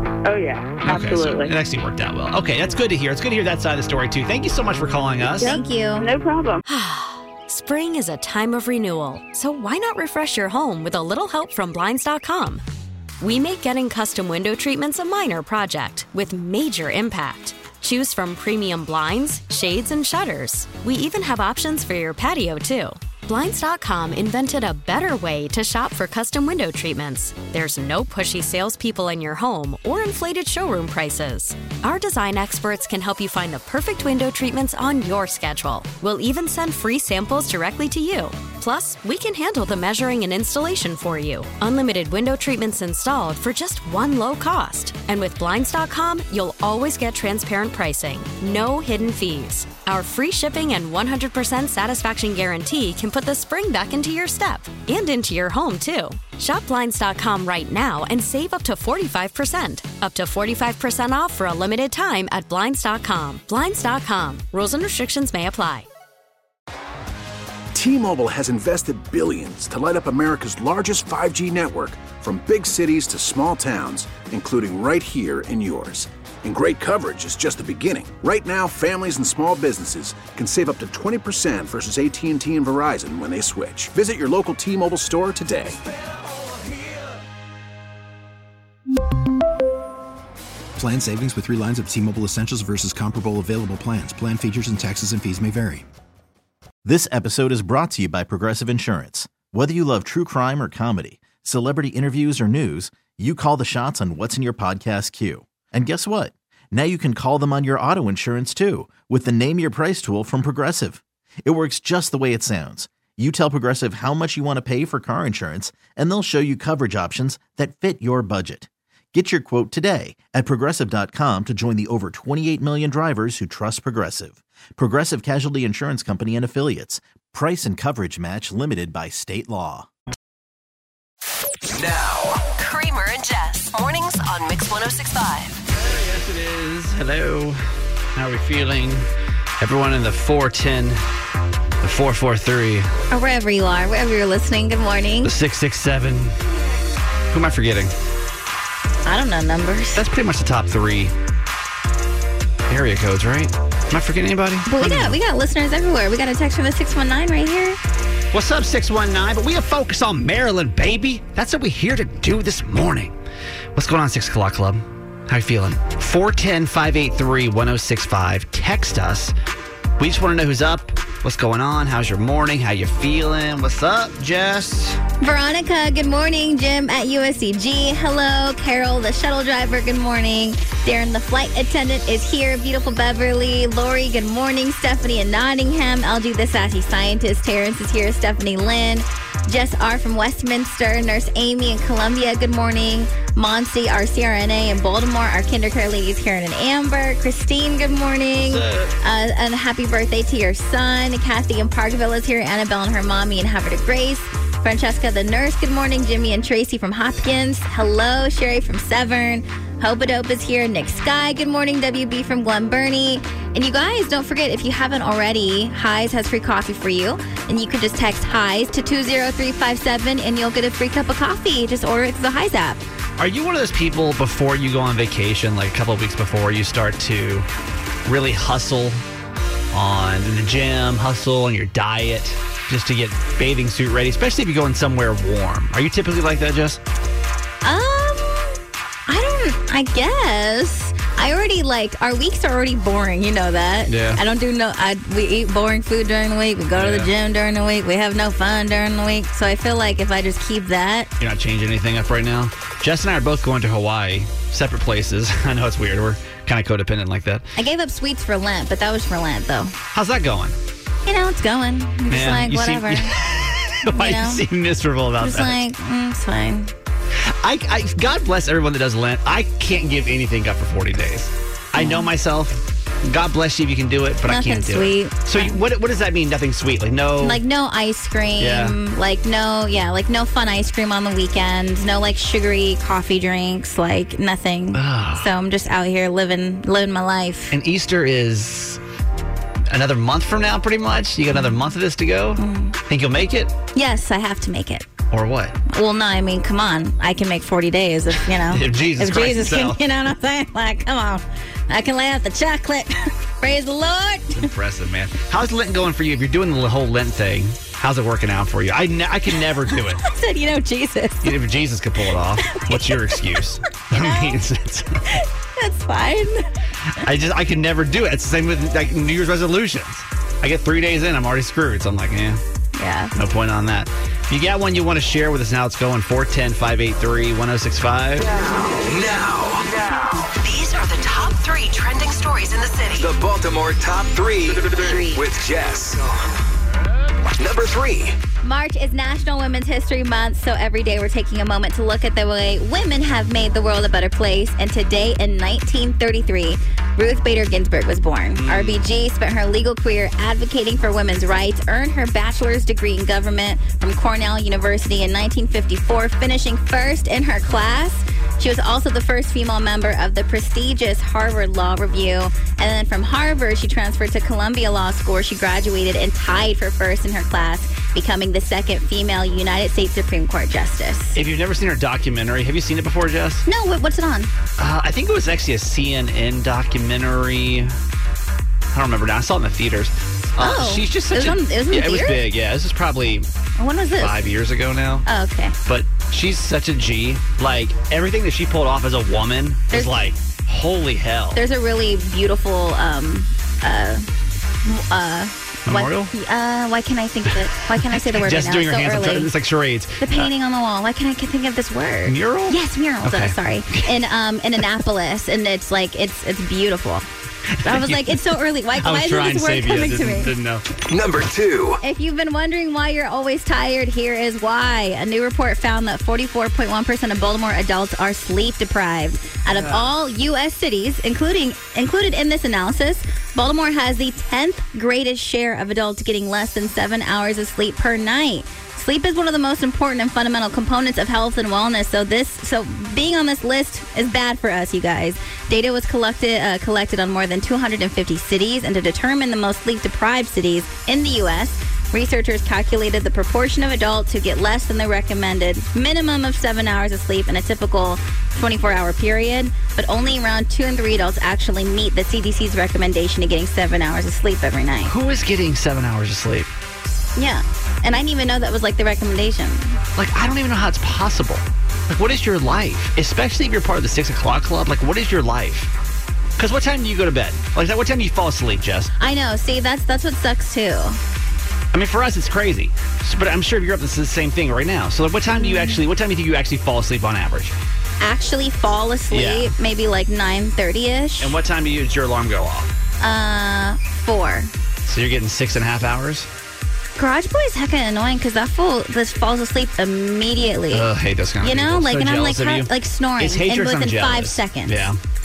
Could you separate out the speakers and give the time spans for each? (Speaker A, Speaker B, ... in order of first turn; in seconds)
Speaker A: 0.2-1.5, 5.4-6.6
Speaker B: 0.8-5.5, 135.7-137.6, 138.2-139.1, 139.6-141.0, 141.8-142.9, 145.2-146.3, 147.3-147.9, 149.9-151.1, 152.7-155.2, 158.3-163.2, 163.7-169.3, 170.0-175.0, 198.3-198.9, 223.2-227.5, 228.1-229.0, 229.7-236.8, 243.9-244.2, 246.7-247.1, 251.2-257.4, 259.9-260.6, 262.1-265.6, 267.4-277.4, 278.4-278.8, 284.7-285.3, 287.5-288.8, 289.7-293.5, 295.1-295.6, 298.4-299.8, 304.4-310.0, 311.2-315.0, 317.0-322.4, 323.1-328.3, 348.4-348.8, 371.1-373.4, 374.6-377.7, 378.7-383.2, 384.0-385.1, 385.7-391.4, 395.6-396.1, 397.9-400.3, 402.1-403.9, 407.5-408.3, 408.8-410.6, 419.5-419.9, 454.9-456.5, 460.0-465.7, 466.4-468.9, 471.7-477.5, 479.1-479.5, 481.2-482.7, 484.9-486.3, 490.7-495.0
Speaker C: 5.4-6.1, 143.1-145.3, 149.1-150.0, 154.7-157.8, 175.2-222.8, 237.6-251.1, 257.6-259.8, 261.1-263.1, 263.9-264.4, 265.2-266.7, 271.8-272.1, 274.3-275.6, 277.2-287.5, 292.4-292.8, 293.7-294.9, 295.7-304.5, 309.4-311.4, 312.5-314.4, 315.1-316.5, 322.8-323.1, 334.7-335.2, 338.4-371.2, 373.4-374.3, 380.4-382.2, 383.6-384.3, 385.1-385.6, 391.3-394.1, 394.6-399.3, 400.0-407.1, 407.6-410.3, 411.8-454.9, 457.1-459.8, 469.0-471.0, 475.3-475.8, 478.0-481.3, 483.0-484.5, 487.0-490.9, 491.4-494.9
Speaker D: 6.7-12.6, 13.2-65.9
Speaker E: 67.7-85.8
Speaker F: 90.8-95.8
Speaker G: 96.8-129.9
Speaker H: 131.7-132.5, 328.2-330.0, 333.0-336.1, 337.4-338.1, 410.9-411.8
Speaker I: 132.5-135.6, 330.4-333.1